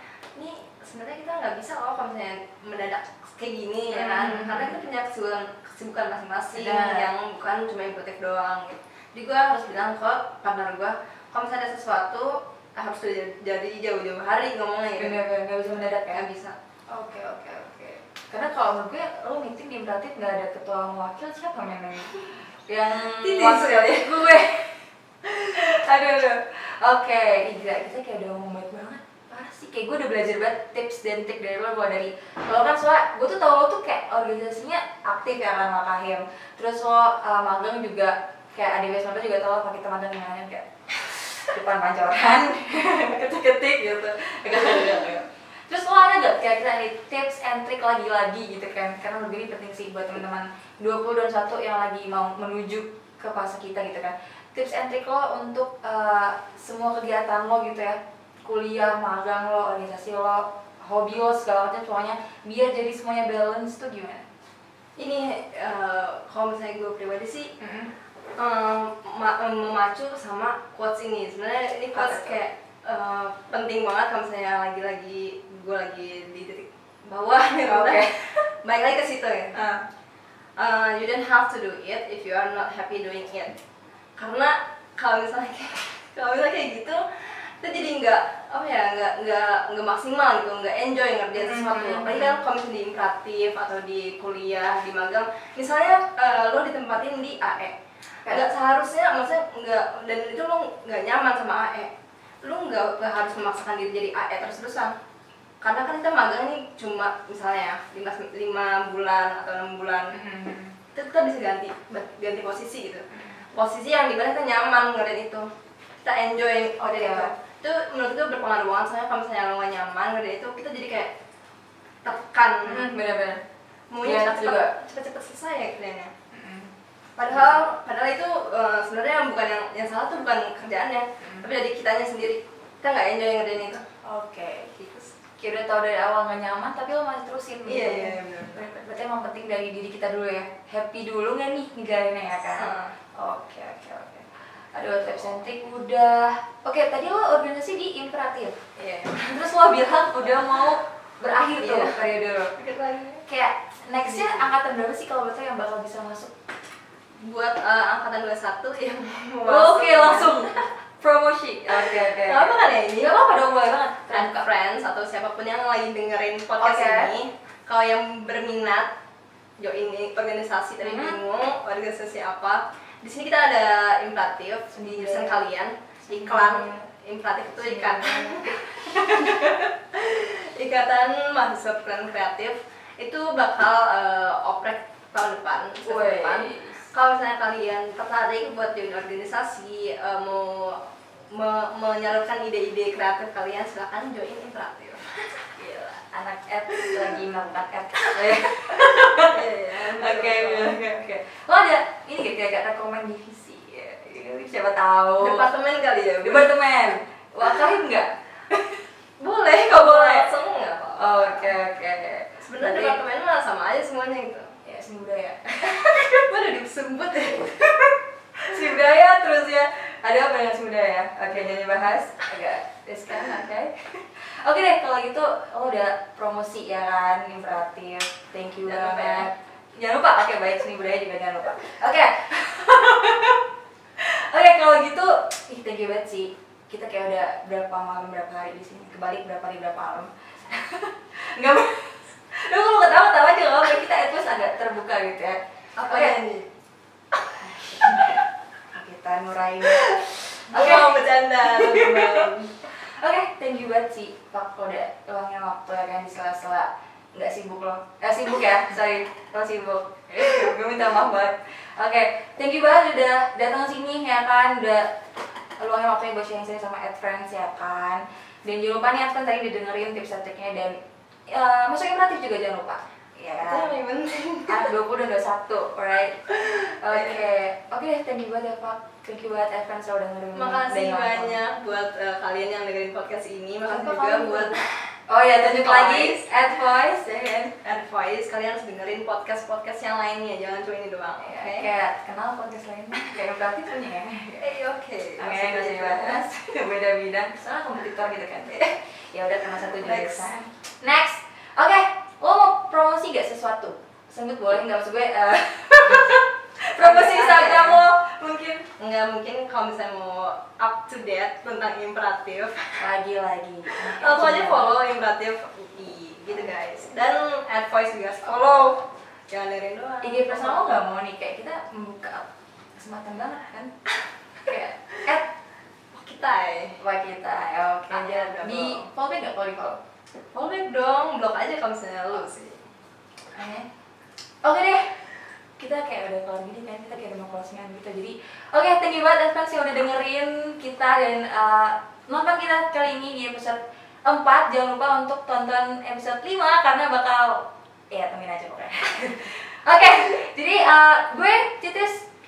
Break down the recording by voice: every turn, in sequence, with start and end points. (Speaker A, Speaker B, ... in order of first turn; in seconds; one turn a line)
Speaker A: 0.3-15.2
Speaker B: 3.9-4.7
Speaker B: 6.5-7.1
Speaker B: 15.0-16.2
Speaker A: 16.1-16.5
Speaker B: 16.9-64.3
Speaker A: 22.9-24.2
Speaker A: 44.7-45.0
Speaker A: 65.0-67.5
Speaker B: 67.6-67.9
Speaker A: 68.4-79.6
Speaker B: 71.9-72.3
Speaker B: 77.6-78.5
Speaker B: 79.5-79.8
Speaker A: 80.6-83.5
Speaker A: 84.2-97.7
Speaker B: 91.4-92.3
Speaker A: 98.3-101.9
Speaker A: 102.4-104.9
Speaker A: 105.6-110.1
Speaker B: 110.1-110.8
Speaker A: 110.9-113.0
Speaker B: 113.1-113.4
Speaker A: 113.5-115.5
Speaker A: 116.0-121.1
Speaker B: 116.8-117.3
Speaker A: 122.0-123.0
Speaker B: 122.6-123.4
Speaker A: 123.9-126.1
Speaker B: 124.0-124.7
Speaker B: 126.3-126.7
Speaker A: 127.2-133.8
Speaker B: 127.3-127.6
Speaker B: 131.2-131.5
Speaker B: 134.0-134.7
Speaker A: 134.7-135.1
Speaker B: 135.4-148.6
Speaker A: 137.6-138.5
Speaker A: 142.6-142.9
Speaker A: 148.8-149.4
Speaker B: 149.3-152.5
Speaker A: 151.6-152.0
Speaker A: 152.6-153.2
Speaker B: 153.3-156.3
Speaker A: 154.0-154.5
Speaker A: 157.2-160.7
Speaker B: 159.4-164.4
Speaker A: 161.7-163.1
Speaker A: 164.1-168.9
Speaker B: 166.6-167.1
Speaker A: 169.6-195.4
Speaker B: 170.8-171.2
Speaker B: 174.7-175.4
Speaker B: 176.1-176.8
Speaker B: 177.6-179.6
Speaker B: 185.8-186.8
Speaker B: 195.6-205.4
Speaker A: 199.3-200.8
Speaker A: 205.2-206.5
Speaker B: 206.2-208.8
Speaker A: 209.2-211.5
Speaker B: 209.7-210.3
Speaker B: 211.0-213.0
Speaker A: 212.4-214.5
Speaker B: 214.6-216.3
Speaker A: 216.3-217.6
Speaker B: 217.8-233.4
Speaker A: 221.3-221.7
Speaker A: 228.6-229.3
Speaker B: 234.0-246.2
Speaker A: 245.8-246.4
Speaker B: 247.2-248.2
Speaker B: 248.7-264.9
Speaker A: 249.7-250.0
Speaker A: 250.5-252.5
Speaker B: 265.6-270.8
Speaker B: 271.3-273.7
Speaker A: 273.4-274.7
Speaker B: 274.5-276.2
Speaker A: 276.3-277.2
Speaker B: 276.8-281.4
Speaker A: 280.3-284.7
Speaker B: 283.7-284.5
Speaker B: 285.1-287.5
Speaker A: 285.3-286.3
Speaker A: 287.6-291.7
Speaker B: 291.2-294.4
Speaker A: 294.3-296.2
Speaker B: 295.2-308.6
Speaker A: 299.8-300.3
Speaker A: 306.8-307.8
Speaker A: 308.8-312.7
Speaker B: 312.8-314.8
Speaker A: 314.0-320.8
Speaker B: 320.0-322.2
Speaker B: 322.8-323.7
Speaker B: 324.4-325.3
Speaker A: 325.9-326.8
Speaker B: 326.8-329.8
Speaker A: 327.9-328.8
Speaker A: 330.3-332.6
Speaker B: 333.3-333.7
Speaker B: 334.4-335.0
Speaker B: 335.6-352.0